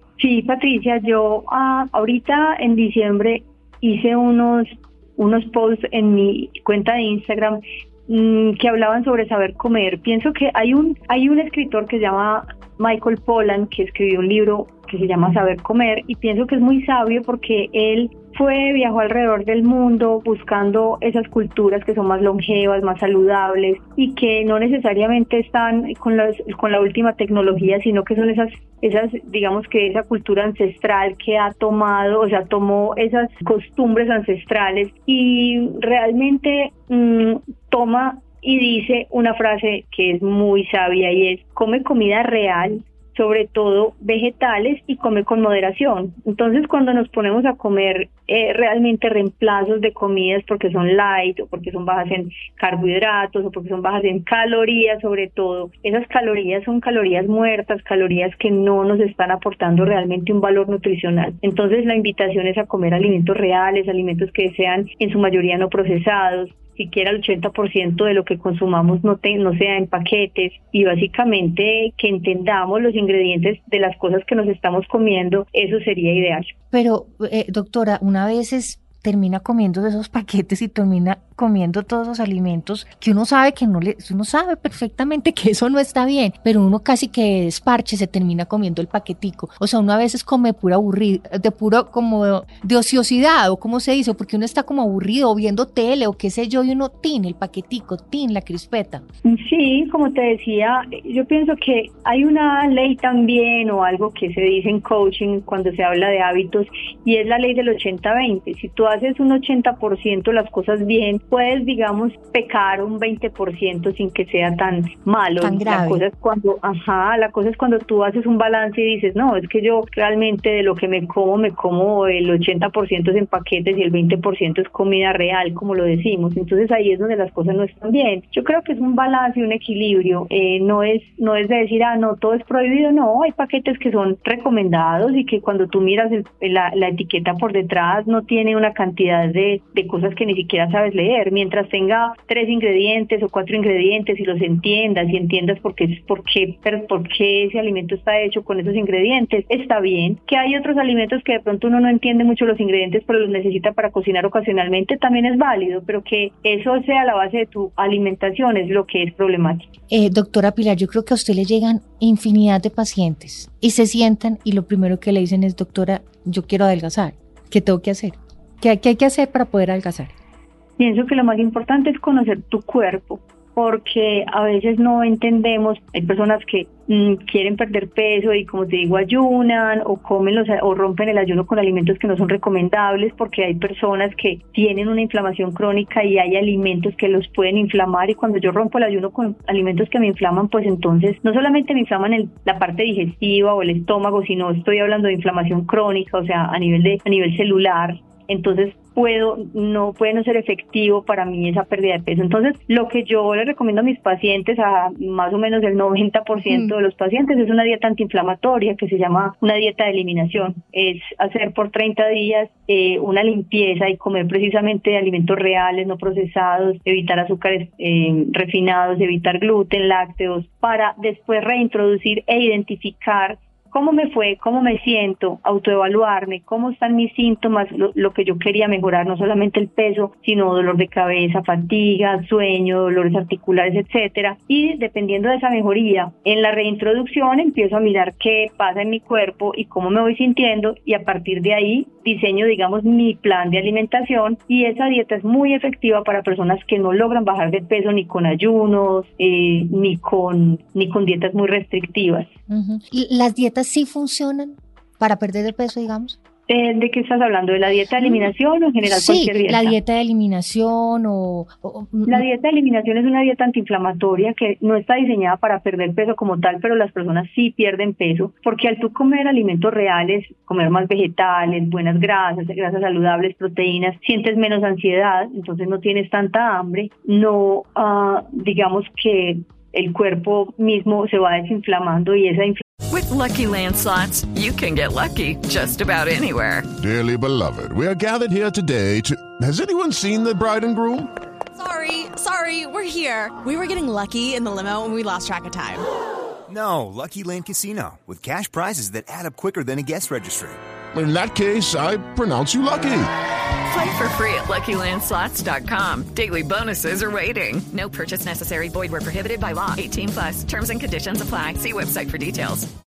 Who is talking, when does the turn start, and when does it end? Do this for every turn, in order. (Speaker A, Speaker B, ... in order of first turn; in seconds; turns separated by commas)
Speaker A: 0.2-76.5, Speaker B: 76.7-99.0, Speaker A: 99.2-159.7, Speaker B: 115.4-116.0, Speaker B: 159.9-170.1, Speaker A: 170.8-252.3, Speaker B: 206.4-206.7, Speaker B: 252.5-256.2, Speaker A: 256.5-259.7, Speaker B: 258.0-258.3, Speaker B: 258.8-262.2, Speaker A: 262.1-282.6, Speaker C: 282.9-286.7, Speaker D: 286.8-291.1, Speaker E: 291.6-295.9, Speaker F: 296.6-300.5, Speaker D: 300.9-303.1, Speaker C: 303.7-312.7